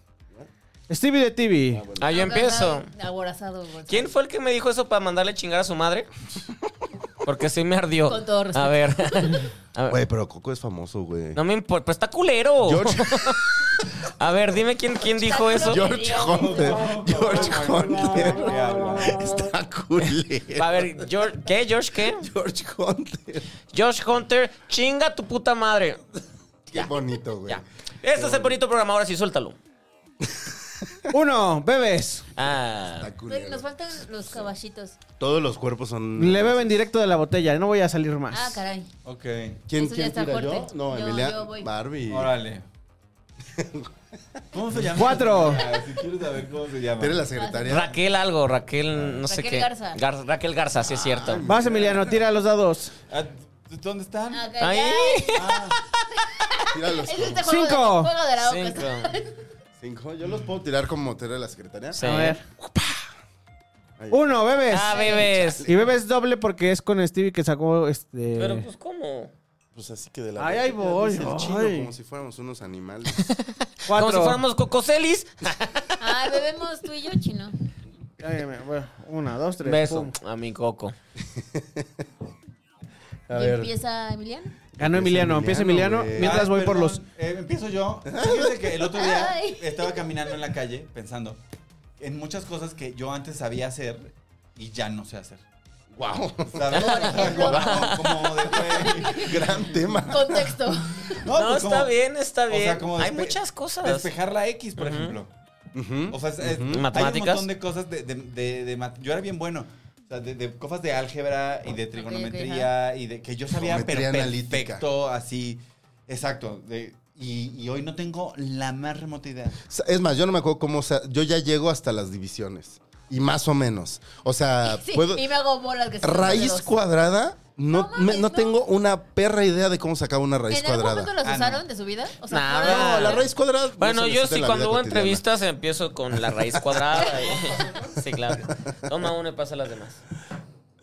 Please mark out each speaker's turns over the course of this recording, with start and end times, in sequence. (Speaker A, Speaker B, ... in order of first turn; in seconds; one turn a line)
Speaker A: 0.9-1.8
Speaker B: 1.7-2.3
Speaker C: 2.0-2.9
Speaker D: 2.0-4.1
Speaker C: 3.9-6.1
Speaker C: 7.2-10.0
Speaker D: 8.1-9.4
Speaker B: 9.9-11.4
Speaker C: 11.3-16.0
Speaker B: 12.6-13.7
Speaker D: 15.2-16.9
Speaker B: 15.5-21.1
Speaker E: 16.2-19.3
Speaker C: 20.6-22.3
Speaker B: 22.1-23.5
Speaker C: 23.7-26.0
Speaker B: 26.7-27.6
Speaker C: 27.5-29.6
Speaker B: 28.1-28.6
Speaker B: 30.2-30.9
Speaker A: 31.1-32.2
Speaker C: 32.4-33.1
Speaker B: 33.0-33.6
Speaker D: 33.3-35.0
Speaker B: 34.2-34.5
Speaker B: 35.2-36.8
Speaker A: 36.1-38.6
Speaker D: 38.3-38.9
Speaker E: 39.0-39.6
Speaker B: 39.7-42.3
Speaker D: 39.7-41.7
Speaker E: 42.1-42.6
Speaker B: 43.5-43.9
Speaker E: 44.5-47.3
Speaker A: 45.0-45.6
Speaker B: 47.0-48.0
Speaker D: 47.3-47.7
Speaker C: 47.6-51.4
Speaker B: 48.9-49.2
Speaker D: 49.3-50.0
Speaker B: 50.8-52.1
Speaker A: 51.5-52.9
Speaker E: 53.1-54.5
Speaker D: 54.3-59.4
Speaker C: 54.6-55.8
Speaker E: 55.4-55.8
Speaker B: 56.7-57.5
Speaker A: 57.4-58.1
Speaker C: 58.4-59.1
Speaker B: 59.8-62.0
Speaker C: 61.9-62.4
Speaker A: 62.0-62.4
Speaker B: 64.0-64.3
Speaker A: 64.1-65.0
Speaker C: 64.7-65.7
Speaker D: 64.9-65.3
Speaker B: 65.3-65.8
Speaker A: 65.6-68.7
Speaker C: 68.4-69.3
Speaker B: 69.7-73.3
Speaker A: 70.4-71.9
Speaker C: 73.2-76.3
Speaker A: 73.8-74.4
Speaker D: 76.0-77.5
Speaker A: 78.2-80.1
Speaker C: 79.6-80.9
Speaker B: 81.3-81.9
Speaker B: 83.3-83.7
Speaker D: 83.3-84.6
Speaker B: 84.8-86.4
Speaker A: 84.8-87.0
Speaker E: 86.1-91.4
Speaker B: 88.0-88.8
Speaker D: 88.8-90.3
Speaker E: 92.0-95.4
Speaker B: 95.9-97.9
Speaker E: 96.5-100.0
Speaker D: 96.7-99.4
Speaker C: 96.9-98.5
Speaker B: 98.9-100.8
Speaker D: 100.1-101.2
Speaker E: 101.2-101.9
Speaker C: 101.3-104.1
Speaker E: 102.5-105.3
Speaker C: 104.8-105.2
Speaker B: 105.7-106.8
Speaker E: 106.1-119.6
Speaker C: 106.7-107.5
Speaker D: 111.9-112.7
Speaker B: 113.5-114.8
Speaker B: 119.7-125.2
Speaker D: 124.6-126.7
Speaker B: 126.0-131.1
Speaker D: 127.7-128.5
Speaker D: 130.5-133.2
Speaker E: 131.2-131.6
Speaker C: 132.3-133.2
Speaker B: 132.6-135.2
Speaker C: 133.8-140.0
Speaker B: 136.1-137.2
Speaker B: 138.3-139.1